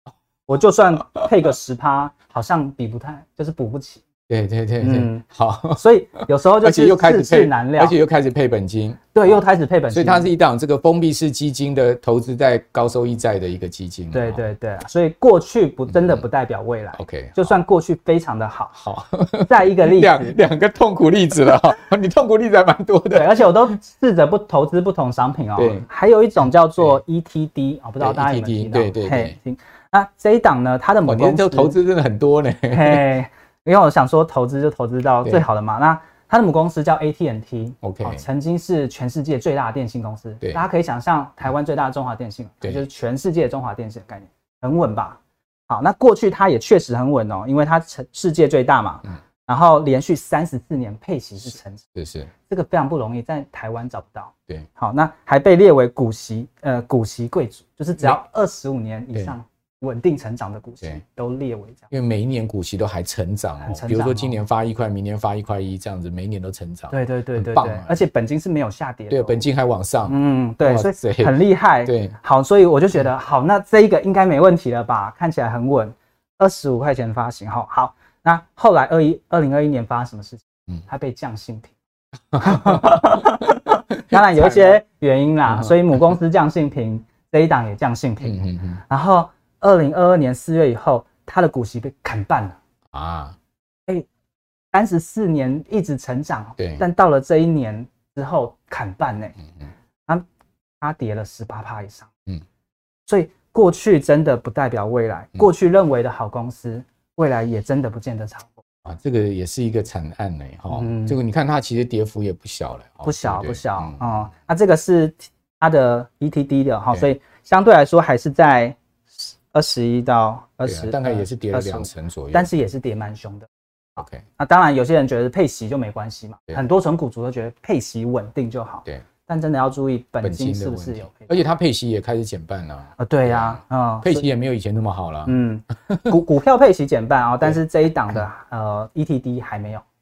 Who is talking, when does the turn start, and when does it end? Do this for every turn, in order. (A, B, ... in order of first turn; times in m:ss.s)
0:00.5-0:04.0 A
0:04.3-0:05.8 B
0:04.8-0:08.0 A
0:06.6-0:09.4 B
0:09.1-0:10.3 A
0:09.9-0:14.4 B
0:14.1-0:18.8 A
0:15.9-0:16.2 B
0:17.0-0:17.5 B
0:18.8-0:23.4 B
0:19.5-0:20.4 A
0:23.1-0:31.8 A
0:25.6-0:25.8 B
0:28.0-0:29.4 B
0:31.1-0:33.0 B
0:32.7-0:51.9 A
0:37.8-0:38.2 B
0:52.0-0:52.3 B
0:52.5-1:01.9 A
1:01.9-1:08.0 B
1:03.6-1:04.4 A
1:06.9-1:09.4 A
1:09.1-1:12.1 B
1:10.1-1:21.7 A
1:22.3-1:23.6 B
1:22.3-1:32.6 A
1:24.1-1:24.7 B
1:28.2-1:28.8 B
1:32.9-1:33.4 B
1:34.7-1:39.4 A
1:36.6-1:36.8 B
1:40.8-1:42.1 A
1:43.1-1:48.6 A
1:48.8-1:54.2 B
1:50.7-1:51.2 A
1:53.0-2:11.4 A
2:00.7-2:02.5 B
2:04.0-2:04.2 B
2:10.2-2:15.3 B
2:13.0-2:14.2 A
2:15.2-2:19.8 A
2:15.9-2:16.2 B